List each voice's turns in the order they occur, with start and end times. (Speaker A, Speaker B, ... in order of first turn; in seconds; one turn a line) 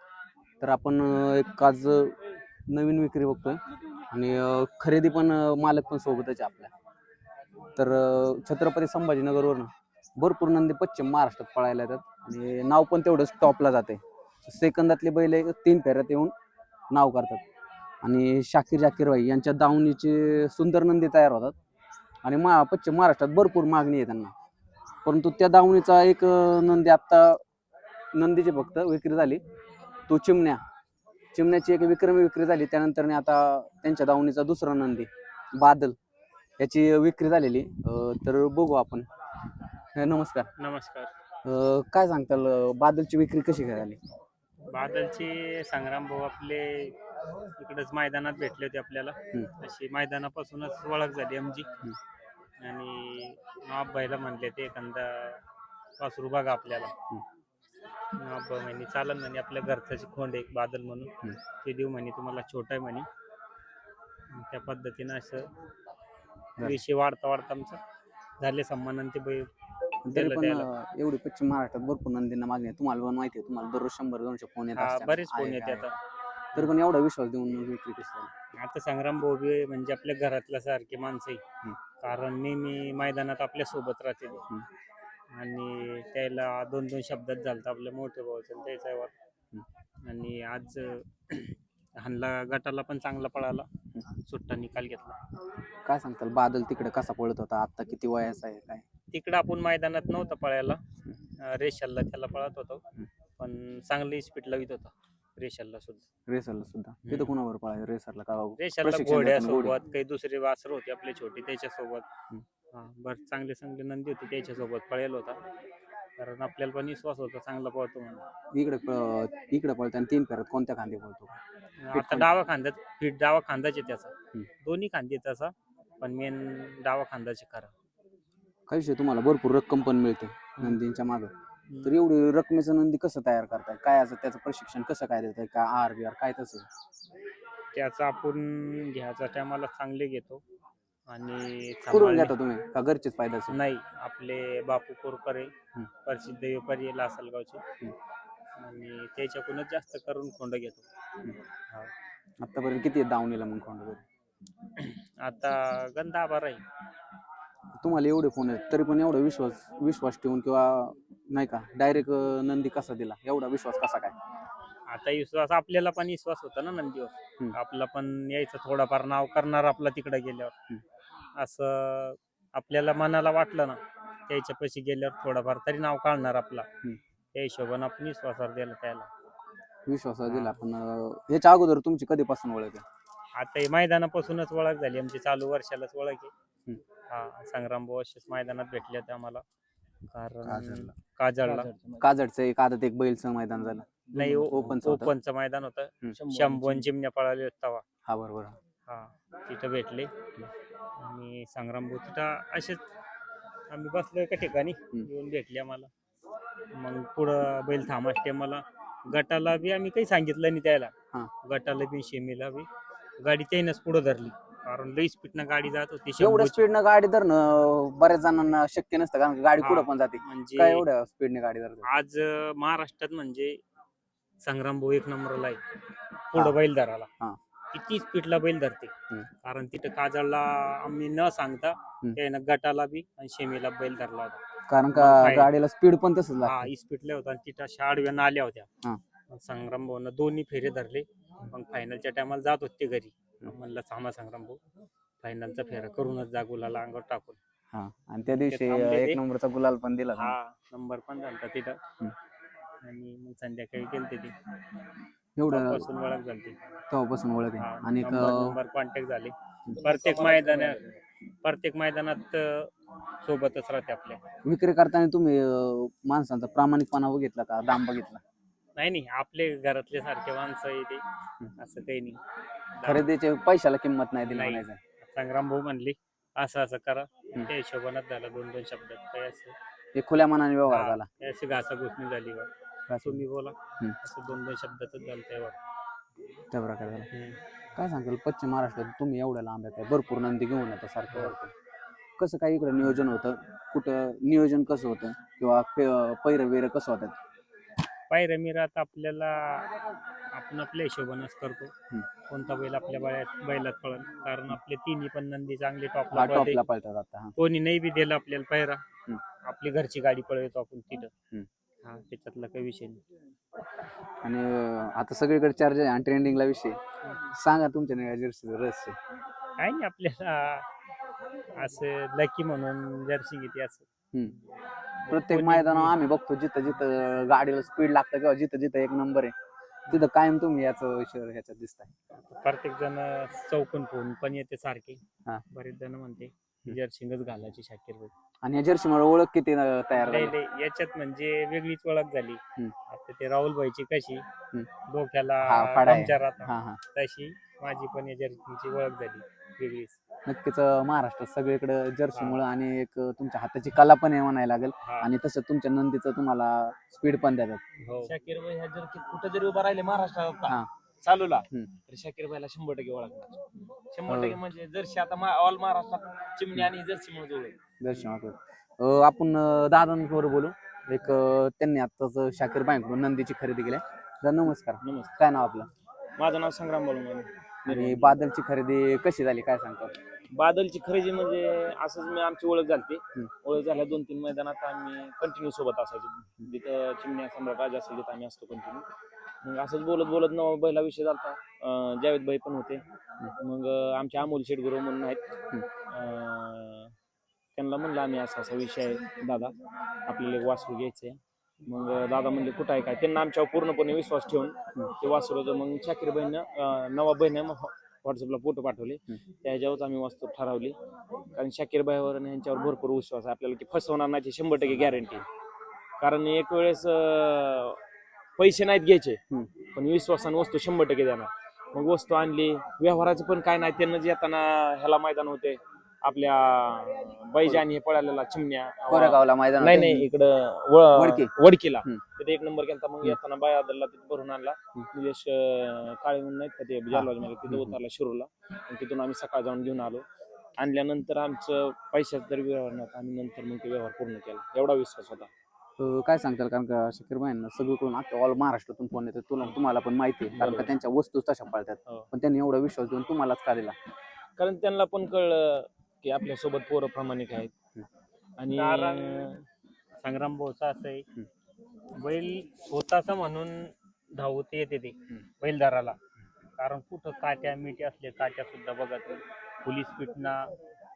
Speaker A: 0.6-2.1
Speaker A: 2.7-3.6
Speaker A: 4.1-6.7
Speaker A: 7.8-16.3
Speaker A: 16.9-17.4
Speaker A: 18.0-21.5
Speaker A: 22.2-24.3
Speaker A: 25.1-27.4
Speaker A: 28.1-29.4
Speaker A: 30.1-30.6
Speaker A: 31.3-36.0
Speaker A: 36.6-39.0
Speaker A: 39.9-40.5
Speaker B: 40.6-41.1
Speaker A: 41.4-44.0
Speaker B: 44.7-46.9
Speaker B: 47.6-51.6
Speaker B: 52.6-55.4
Speaker B: 56.0-56.9
Speaker B: 58.2-63.0
Speaker B: 64.3-65.5
Speaker B: 66.6-67.8
Speaker B: 68.4-69.5
Speaker A: 70.0-75.9
Speaker B: 70.1-70.7
Speaker B: 74.7-76.0
Speaker A: 76.5-78.3
Speaker B: 78.5-81.4
Speaker B: 82.0-84.4
Speaker B: 85.3-89.1
Speaker B: 90.0-93.7
Speaker B: 94.2-95.2
Speaker A: 95.8-98.8
Speaker B: 99.1-100.8
Speaker B: 101.4-102.8
Speaker B: 103.4-106.0
Speaker A: 106.3-109.8
Speaker B: 107.0-107.3
Speaker B: 108.6-112.0
Speaker B: 112.7-115.4
Speaker B: 116.2-118.2
Speaker A: 118.5-121.4
Speaker B: 121.8-124.1
Speaker A: 121.9-122.3
Speaker B: 124.6-127.7
Speaker A: 128.7-131.3
Speaker B: 131.7-132.0
Speaker A: 131.8-136.7
Speaker B: 137.7-140.4
Speaker B: 141.1-142.3
Speaker A: 141.9-143.6
Speaker B: 143.5-145.5
Speaker B: 146.1-147.6
Speaker B: 148.6-150.8
Speaker A: 152.4-154.0
Speaker B: 154.8-156.6
Speaker A: 157.8-164.1
Speaker B: 164.9-170.5
Speaker B: 171.4-176.7
Speaker B: 177.3-179.1
Speaker A: 179.9-182.8
Speaker B: 180.3-180.6
Speaker B: 183.3-186.3
Speaker B: 187.1-189.4
Speaker B: 190.1-191.7
Speaker C: 191.4-192.1
Speaker A: 192.0-195.1
Speaker B: 194.2-197.8
Speaker C: 196.1-196.9
Speaker A: 198.1-198.5
Speaker B: 198.9-200.1
Speaker B: 201.0-202.8
Speaker B: 203.7-205.9
Speaker B: 206.8-210.9
Speaker B: 211.4-212.7
Speaker B: 213.2-216.6
Speaker A: 216.2-221.9
Speaker B: 219.6-220.8
Speaker B: 221.9-223.6
Speaker B: 224.4-225.6
Speaker B: 226.3-227.1
Speaker B: 227.7-228.9
Speaker B: 229.4-234.4
Speaker A: 234.7-236.7
Speaker B: 234.9-235.5
Speaker B: 236.4-238.7
Speaker B: 239.3-244.6
Speaker B: 245.2-247.4
Speaker A: 247.7-250.3
Speaker B: 248.3-249.2
Speaker B: 250.2-251.8
Speaker B: 252.8-254.3
Speaker A: 255.4-255.8
Speaker B: 255.5-256.5
Speaker A: 256.9-258.6
Speaker B: 257.6-260.8
Speaker C: 259.7-261.0
Speaker B: 261.4-262.7
Speaker B: 263.2-264.2
Speaker A: 264.4-268.2
Speaker B: 268.8-271.0
Speaker B: 271.6-272.2
Speaker B: 272.8-273.1
Speaker A: 272.8-274.8
Speaker B: 274.3-279.5
Speaker A: 279.9-281.1
Speaker B: 280.7-282.5
Speaker A: 282.9-283.2
Speaker B: 283.0-285.6
Speaker A: 286.5-287.1
Speaker B: 287.1-287.4
Speaker A: 287.8-291.5
Speaker B: 291.1-291.4
Speaker A: 292.2-297.1
Speaker B: 298.1-299.7
Speaker B: 300.3-301.7
Speaker B: 302.3-306.6
Speaker A: 306.1-307.3
Speaker B: 307.4-308.8
Speaker B: 309.4-311.1
Speaker B: 311.8-313.0
Speaker A: 314.2-319.0
Speaker B: 319.6-320.7
Speaker B: 321.6-323.8
Speaker B: 325.1-325.9
Speaker A: 325.1-329.3
Speaker A: 329.9-331.9
Speaker B: 332.2-338.1
Speaker A: 338.4-340.3
Speaker B: 340.0-344.2
Speaker B: 344.9-350.0
Speaker A: 345.4-346.8
Speaker A: 350.2-357.6
Speaker B: 352.1-352.4
Speaker B: 354.8-355.1
Speaker B: 357.8-358.1
Speaker C: 358.0-367.6
Speaker A: 364.1-364.4
Speaker A: 367.8-375.7
Speaker C: 374.8-375.1
Speaker C: 376.2-378.2
Speaker A: 377.7-380.0
Speaker C: 380.3-388.8
Speaker C: 389.4-392.8
Speaker C: 393.4-395.2
Speaker C: 395.9-396.9
Speaker C: 397.5-399.5
Speaker C: 400.1-410.8
Speaker C: 411.3-415.2
Speaker C: 416.0-417.8
Speaker C: 418.4-419.2
Speaker C: 419.7-440.0
Speaker A: 428.9-430.1
Speaker A: 430.9-431.3
Speaker A: 436.9-437.8
Speaker C: 440.6-445.3
Speaker A: 445.8-453.7
Speaker C: 450.4-450.7
Speaker C: 454.4-457.5
Speaker C: 458.4-459.3
Speaker B: 458.5-459.3
Speaker B: 460.0-461.1
Speaker B: 462.0-466.0
Speaker B: 466.6-470.5